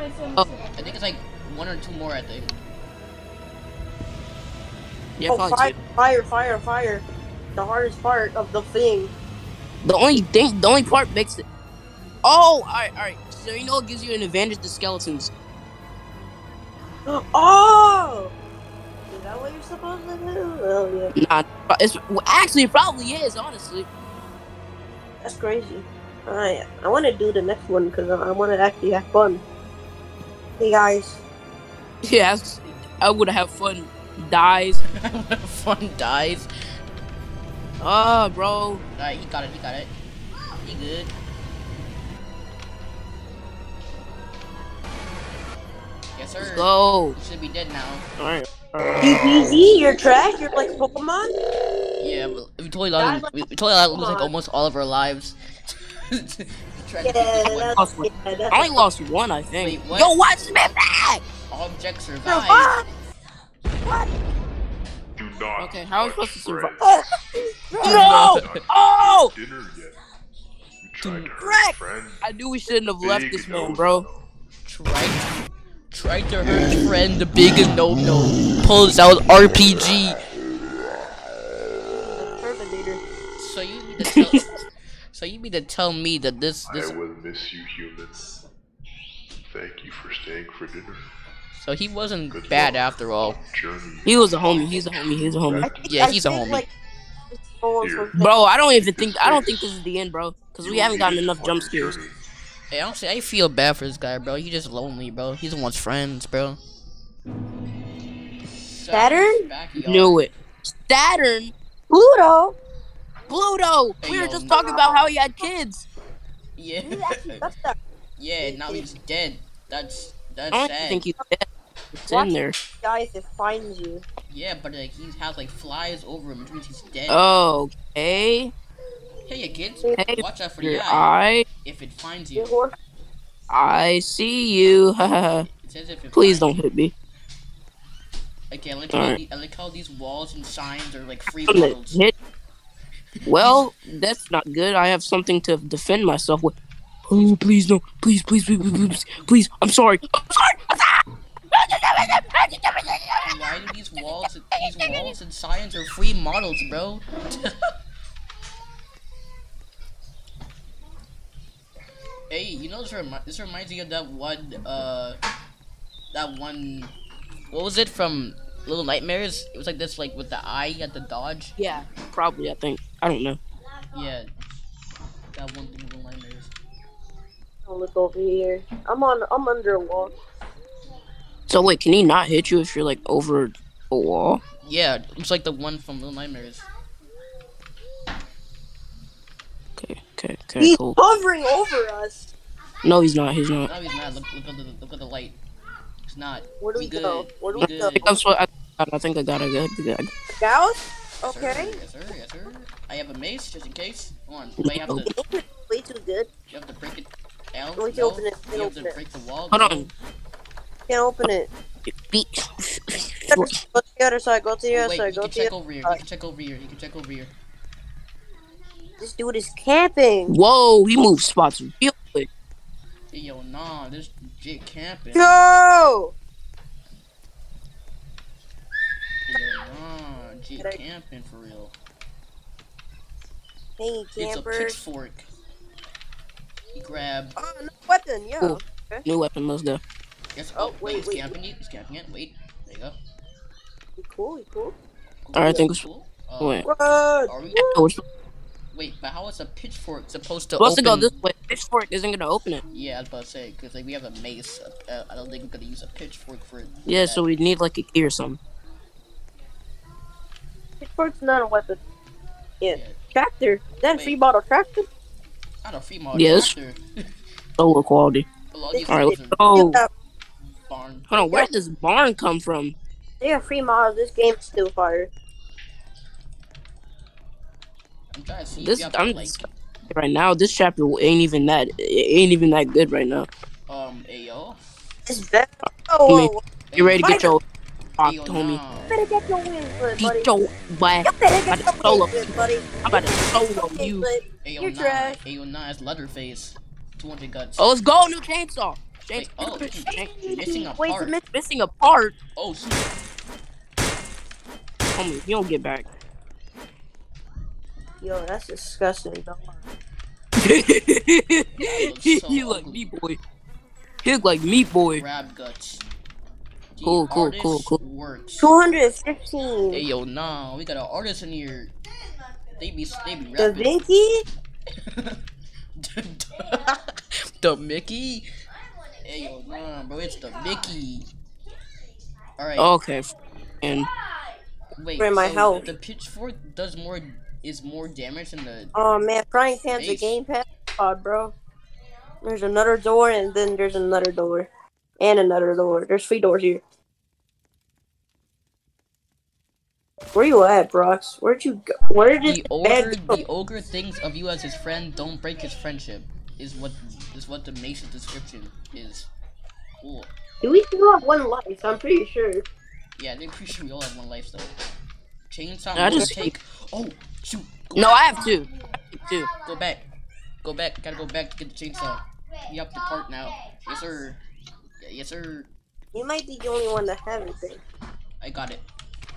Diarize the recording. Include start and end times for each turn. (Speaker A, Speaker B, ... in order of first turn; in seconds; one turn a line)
Speaker A: 0.7-2.5
Speaker B: 5.2-5.8
Speaker C: 5.3-7.0
Speaker C: 7.6-9.1
Speaker B: 9.8-11.4
Speaker B: 12.2-15.3
Speaker C: 17.1-18.3
Speaker C: 19.1-21.1
Speaker B: 21.1-23.9
Speaker C: 25.2-29.4
Speaker C: 30.6-31.2
Speaker B: 32.0-34.8
Speaker A: 35.0-36.5
Speaker B: 37.8-38.8
Speaker A: 39.0-39.9
Speaker A: 40.6-41.1
Speaker A: 46.1-48.1
Speaker B: 46.4-47.2
Speaker B: 48.2-49.5
Speaker C: 49.0-51.4
Speaker A: 52.0-55.4
Speaker C: 53.0-53.3
Speaker C: 53.9-54.3
Speaker A: 56.1-57.9
Speaker C: 57.0-58.9
Speaker B: 57.8-61.2
Speaker A: 59.6-60.2
Speaker A: 61.5-62.7
Speaker C: 62.3-62.9
Speaker C: 63.8-64.1
Speaker D: 65.2-67.1
Speaker B: 65.6-66.8
Speaker C: 66.8-68.2
Speaker A: 67.8-68.6
Speaker B: 67.8-69.3
Speaker D: 68.0-70.0
Speaker D: 70.8-72.3
Speaker A: 71.0-71.3
Speaker B: 71.4-74.1
Speaker D: 73.0-74.3
Speaker A: 74.7-75.3
Speaker A: 75.9-80.2
Speaker C: 82.0-83.0
Speaker A: 83.4-84.4
Speaker A: 85.1-87.0
Speaker D: 86.7-88.4
Speaker D: 89.5-91.1
Speaker A: 91.5-93.4
Speaker D: 92.3-96.1
Speaker B: 94.0-95.8
Speaker C: 95.6-96.7
Speaker A: 95.9-96.7
Speaker C: 97.3-98.3
Speaker D: 97.8-99.6
Speaker B: 98.2-102.0
Speaker D: 100.6-102.2
Speaker A: 102.7-106.6
Speaker A: 108.5-110.3
Speaker C: 108.9-109.5
Speaker B: 109.8-111.5
Speaker C: 111.9-112.6
Speaker B: 113.3-115.9
Speaker A: 114.0-114.5
Speaker C: 114.5-115.5
Speaker A: 116.6-117.5
Speaker C: 116.9-117.8
Speaker A: 118.2-121.1
Speaker C: 118.4-118.9
Speaker B: 120.5-122.5
Speaker C: 122.1-124.0
Speaker A: 124.3-127.2
Speaker B: 127.1-128.5
Speaker A: 129.3-131.1
Speaker B: 130.0-131.5
Speaker A: 131.6-132.6
Speaker C: 132.4-132.8
Speaker B: 133.5-135.5
Speaker A: 135.5-136.6
Speaker B: 136.1-136.9
Speaker A: 138.5-142.0
Speaker B: 138.9-139.2
Speaker B: 141.3-142.1
Speaker B: 143.3-146.5
Speaker B: 147.1-151.0
Speaker B: 151.5-153.3
Speaker A: 153.2-157.5
Speaker B: 154.6-155.1
Speaker A: 162.3-165.2
Speaker A: 166.1-166.9
Speaker A: 167.5-171.6
Speaker B: 171.6-173.4
Speaker A: 173.9-174.3
Speaker A: 175.3-176.5
Speaker C: 177.7-180.2
Speaker B: 181.5-184.4
Speaker A: 184.6-186.7
Speaker B: 189.8-191.0
Speaker C: 190.6-192.3
Speaker B: 192.8-193.7
Speaker A: 193.7-195.4
Speaker A: 196.1-198.1
Speaker C: 196.6-198.2
Speaker B: 197.6-200.1
Speaker C: 200.3-201.8
Speaker A: 201.2-205.1
Speaker B: 204.6-205.0
Speaker C: 205.1-206.3
Speaker A: 206.5-209.9
Speaker C: 207.8-209.0
Speaker B: 209.5-209.9
Speaker C: 210.9-211.5
Speaker B: 211.9-213.5
Speaker C: 213.3-216.0
Speaker A: 214.7-217.3
Speaker C: 219.0-220.3
Speaker B: 220.3-222.3
Speaker A: 223.1-225.4
Speaker C: 225.1-226.1
Speaker A: 229.3-231.7
Speaker C: 233.8-234.8
Speaker A: 234.2-235.3
Speaker A: 236.7-237.4
Speaker C: 237.4-239.0
Speaker B: 238.4-239.8
Speaker A: 240.3-243.0
Speaker C: 240.6-241.3
Speaker C: 244.0-244.8
Speaker A: 245.2-246.7
Speaker B: 245.3-245.8
Speaker B: 246.4-246.7
Speaker C: 246.7-247.3
Speaker A: 247.3-247.7
Speaker B: 247.6-248.0
Speaker A: 248.7-251.1
Speaker B: 250.6-252.6
Speaker A: 252.7-257.2
Speaker B: 256.9-258.4
Speaker C: 260.8-261.8
Speaker C: 262.6-264.9
Speaker A: 262.7-263.0
Speaker A: 263.9-264.2
Speaker A: 265.6-266.8
Speaker B: 266.1-266.5
Speaker B: 267.6-268.3
Speaker A: 268.5-269.6
Speaker C: 268.7-269.9
Speaker B: 268.9-269.8
Speaker A: 270.7-271.1
Speaker B: 271.1-272.8
Speaker C: 271.2-271.5
Speaker C: 273.2-275.1
Speaker A: 278.1-279.5
Speaker B: 278.6-283.3
Speaker A: 283.7-284.6
Speaker C: 285.1-286.4
Speaker B: 286.1-287.4
Speaker A: 286.7-287.2
Speaker C: 287.0-287.4
Speaker B: 288.0-288.6
Speaker A: 288.0-289.0
Speaker C: 288.9-290.3
Speaker B: 290.0-292.3
Speaker C: 291.1-295.2
Speaker B: 292.8-294.1
Speaker A: 294.4-297.7
Speaker B: 297.6-300.1
Speaker A: 299.2-301.2
Speaker C: 299.9-301.2
Speaker B: 301.2-302.2
Speaker A: 302.4-302.9
Speaker B: 304.9-305.9
Speaker C: 308.0-309.6
Speaker B: 310.4-313.2
Speaker A: 311.6-312.9
Speaker B: 314.0-315.0
Speaker A: 314.9-315.9
Speaker A: 316.7-318.5
Speaker B: 316.9-317.8
Speaker C: 318.4-319.8
Speaker A: 319.7-321.7
Speaker A: 322.6-323.7
Speaker C: 323.4-324.3
Speaker A: 325.8-328.3
Speaker A: 329.0-331.1
Speaker A: 332.4-332.7
Speaker B: 332.6-333.9
Speaker A: 334.8-338.7
Speaker C: 335.0-335.7
Speaker C: 338.8-341.4
Speaker A: 339.7-340.2
Speaker C: 342.2-344.5
Speaker C: 345.0-346.6
Speaker C: 350.1-353.2
Speaker A: 352.2-359.1
Speaker A: 359.8-360.1
Speaker C: 360.4-362.4
Speaker A: 363.0-364.5
Speaker A: 365.3-368.1
Speaker B: 365.8-366.3
Speaker B: 367.8-369.3
Speaker A: 369.4-369.9
Speaker A: 370.4-374.2
Speaker A: 374.8-375.5
Speaker C: 375.9-377.6
Speaker A: 378.2-378.6